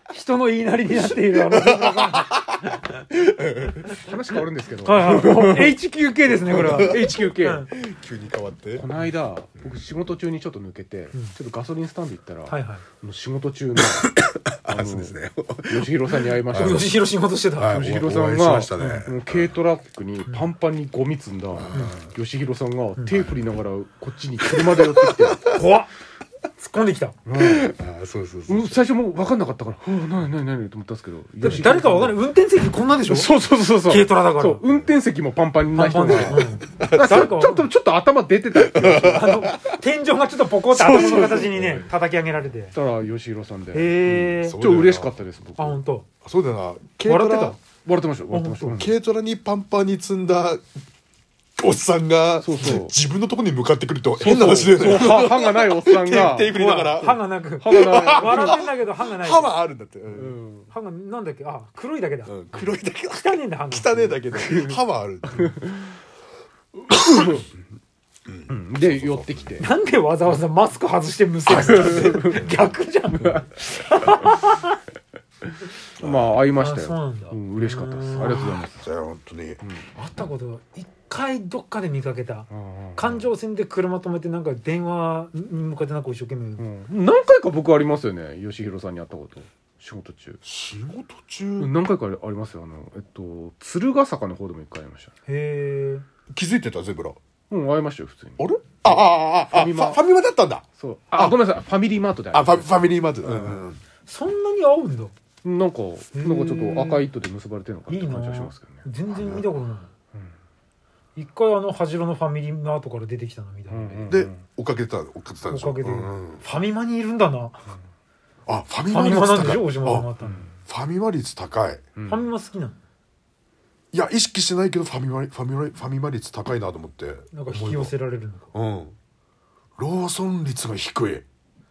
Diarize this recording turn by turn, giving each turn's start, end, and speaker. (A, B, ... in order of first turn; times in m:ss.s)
0:00.1-0:02.4 A
0:01.1-0:04.4 B
0:03.9-0:05.8 C
0:04.8-0:07.7 A
0:06.4-0:07.7 C
0:06.5-0:08.9 B
0:08.7-0:14.1 C
0:12.5-0:12.8 A
0:13.8-0:16.9 B
0:14.7-0:16.9 C
0:16.5-0:17.8 A
0:17.6-0:19.5 B
0:17.7-0:25.5 C
0:21.6-0:22.1 B
0:23.0-0:23.2 A
0:24.5-0:25.6 B
0:25.5-0:25.9 A
0:26.6-0:27.2 A
0:27.3-0:27.8 C
0:27.4-0:28.8 B
0:28.5-0:32.2 C
0:31.4-0:33.3 A
0:33.0-0:39.5 C
0:33.8-0:34.7 A
0:35.7-0:37.7 A
0:36.0-0:37.4 B
0:38.5-0:39.8 B
0:38.9-0:42.8 A
0:40.7-0:41.8 C
0:40.9-0:41.8 B
0:42.7-0:45.8 C
0:43.7-0:44.6 A
0:44.1-0:45.2 B
0:45.6-0:46.1 A
0:46.2-0:47.6 B
0:47.0-0:47.6 A
0:47.6-0:48.9 C
0:48.3-0:48.8 A
0:48.6-0:50.6 B
0:51.6-1:00.4 B
0:52.4-0:53.0 C
0:54.2-0:56.8 C
0:56.5-0:59.6 A
0:57.6-0:58.6 C
1:00.1-1:00.7 C
1:00.7-1:02.3 A
1:02.3-1:05.6 B
1:03.2-1:04.2 A
1:04.3-1:04.8 C
1:05.3-1:05.9 C
1:07.0-1:07.4 C
1:08.3-1:09.6 B
1:08.5-1:09.7 C
1:09.6-1:14.8 A
1:11.5-1:12.6 B
1:11.5-1:12.5 C
1:13.2-1:13.5 C
1:16.0-1:18.9 C
1:16.0-1:16.4 B
1:16.5-1:18.6 A
1:18.8-1:19.7 B
1:20.0-1:26.6 A
1:22.5-1:23.3 C
1:26.6-1:30.4 C
1:30.4-1:31.7 B
1:31.6-1:35.1 C
1:35.3-1:36.0 A
1:36.3-1:37.2 B
1:37.5-1:40.0 C
1:38.4-1:41.4 B
1:40.8-1:42.7 C
1:42.3-1:43.8 B
1:43.5-1:45.1 A
1:45.4-1:48.8 C
1:46.1-1:47.1 A
1:47.9-1:49.9 A
1:49.1-1:49.5 B
1:51.2-1:54.2 A
1:53.7-1:54.4 C
1:54.1-1:56.4 B
1:55.5-1:57.6 A
1:58.5-2:00.1 B
1:58.9-2:00.5 A
2:00.2-2:00.5 C
2:00.7-2:01.9 B
2:02.0-2:02.3 C
2:02.1-2:02.8 A
2:03.9-2:07.9 B
2:07.3-2:08.5 A
2:08.5-2:09.0 B
2:09.8-2:11.2 B